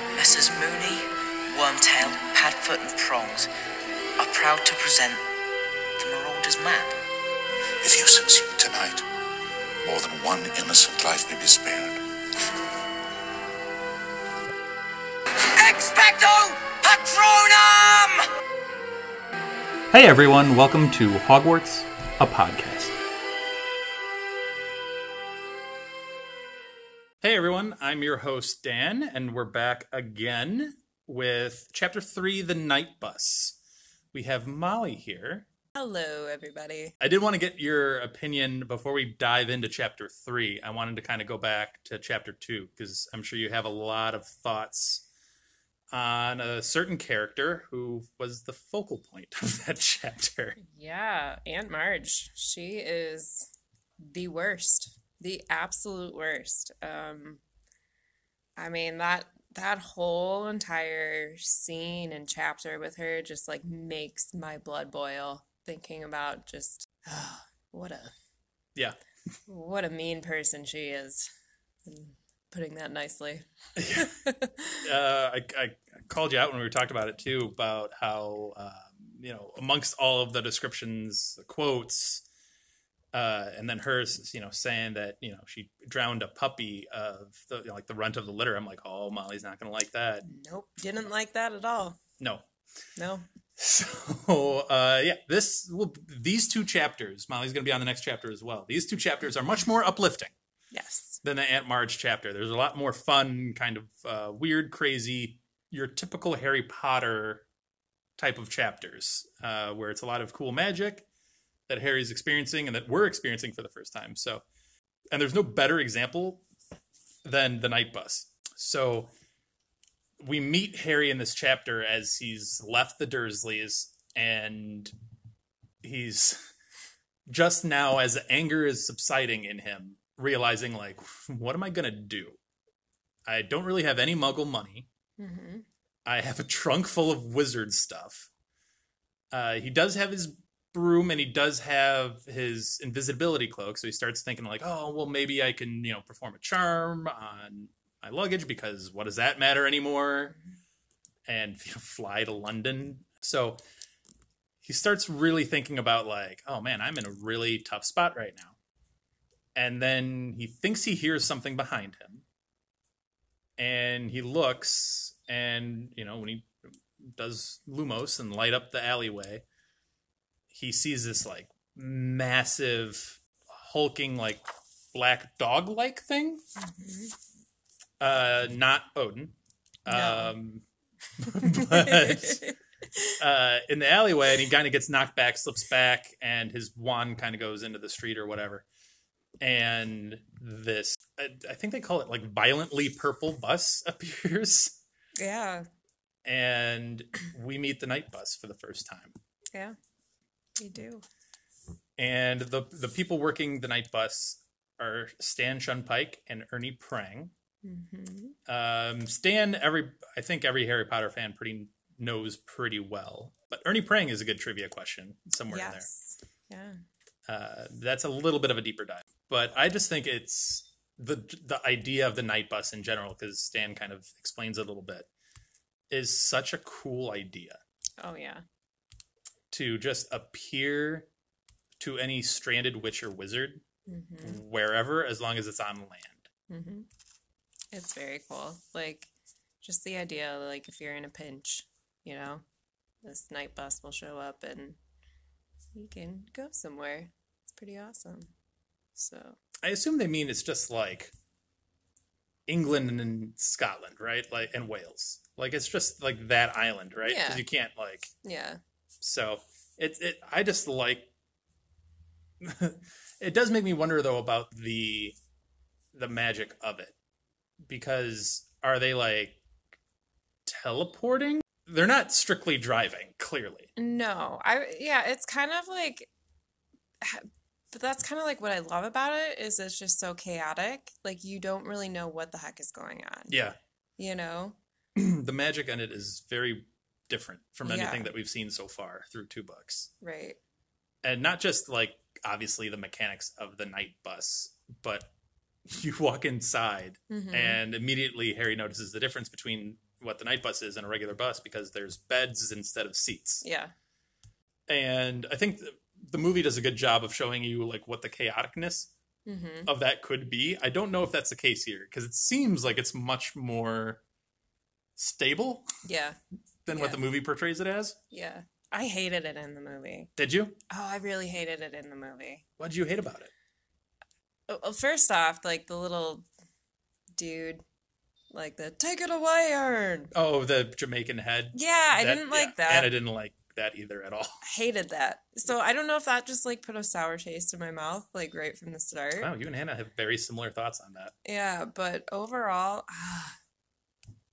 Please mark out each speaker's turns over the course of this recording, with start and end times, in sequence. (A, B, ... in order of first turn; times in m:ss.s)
0:00.1-0:03.5 A
0:04.2-0:05.2 A
0:06.0-0:06.9 A
0:07.8-0:09.0 B
0:09.8-0:12.0 B
0:15.5-0:18.3 A
0:19.9-0:22.9 C
0:27.2-0:33.6 C
0:34.1-0:35.5 C
0:35.7-0:36.9 D
0:37.0-0:45.0 C
0:45.9-0:50.6 C
0:50.6-0:53.5 D
0:54.0-0:57.4 D
0:58.6-1:08.1 D
1:09.5-1:11.3 D
1:11.8-1:14.8 D
1:13.8-1:14.1 C
1:14.8-1:22.2 C
1:23.1-1:30.2 C
1:30.2-1:32.0 D
1:32.2-1:32.4 C
1:33.0-1:33.2 D
1:33.6-1:40.3 C
1:40.7-1:41.2 D
1:41.2-1:47.4 C
1:48.2-1:51.0 C
1:51.7-1:54.4 C
1:55.1-1:56.4 C
1:57.2-1:59.1 C
2:00.2-2:04.9 C
2:05.8-2:06.4 C
2:07.3-2:12.4 C
2:13.2-2:14.9 C
2:15.2-2:15.6 D
2:16.0-2:18.3 C
2:19.3-2:30.4 C
2:31.3-2:33.6 C
2:34.6-2:38.6 C
2:39.5-2:42.2 C
2:43.6-2:49.4 C
2:50.5-2:54.4 C
2:54.9-2:56.4 C
2:56.6-2:57.1 D
2:58.0-3:00.6 C
2:59.9-3:00.3 D
3:01.2-3:02.4 C
3:01.4-3:03.1 D
3:03.2-3:08.6 C
3:09.4-3:14.8 C
3:15.2-3:15.6 D
3:16.2-3:19.1 C
3:20.6-3:21.0 D
3:22.0-3:27.3 C
3:27.6-3:28.4 D
3:28.5-3:35.9 C
3:35.5-3:36.8 D
3:37.3-3:45.1 C
3:45.9-3:47.6 C
3:48.0-3:48.4 D
3:49.5-3:51.1 C
3:51.8-3:53.6 C
3:53.9-3:54.4 D
3:54.2-3:56.3 C
3:56.5-3:56.9 D
3:57.7-3:59.1 D
3:59.6-4:02.4 D
4:03.0-4:04.8 D
4:05.7-4:08.3 D
4:09.0-4:09.4 D
4:09.6-4:11.1 C
4:12.5-4:18.1 C
4:17.0-4:17.4 D
4:18.2-4:18.6 D
4:19.0-4:21.1 C
4:22.4-4:25.2 C
4:25.9-4:26.9 C
4:27.6-4:29.4 C
4:30.4-4:33.7 C
4:33.8-4:36.1 D
4:37.0-4:43.3 D
4:43.3-4:43.6 C
4:44.0-4:44.6 D
4:44.9-4:49.9 C
4:47.6-4:48.1 D
4:50.0-4:50.4 D
4:51.0-4:55.1 C
4:55.6-5:03.4 C
4:57.1-4:57.6 D
5:03.4-5:03.7 D
5:04.7-5:08.9 C
5:09.2-5:09.7 D
5:09.6-5:14.0 C
5:15.0-5:15.7 C
5:15.8-5:16.2 D
5:16.6-5:18.0 C
5:16.7-5:17.0 D
5:18.1-5:20.1 D
5:20.2-5:20.6 C
5:20.7-5:22.4 D
5:22.6-5:23.3 C
5:24.5-5:26.2 D
5:27.2-5:27.6 D
5:28.3-5:30.1 D
5:30.1-5:34.4 C
5:31.5-5:32.9 D
5:34.4-5:39.3 D
5:39.2-5:41.1 C
5:41.2-5:43.4 D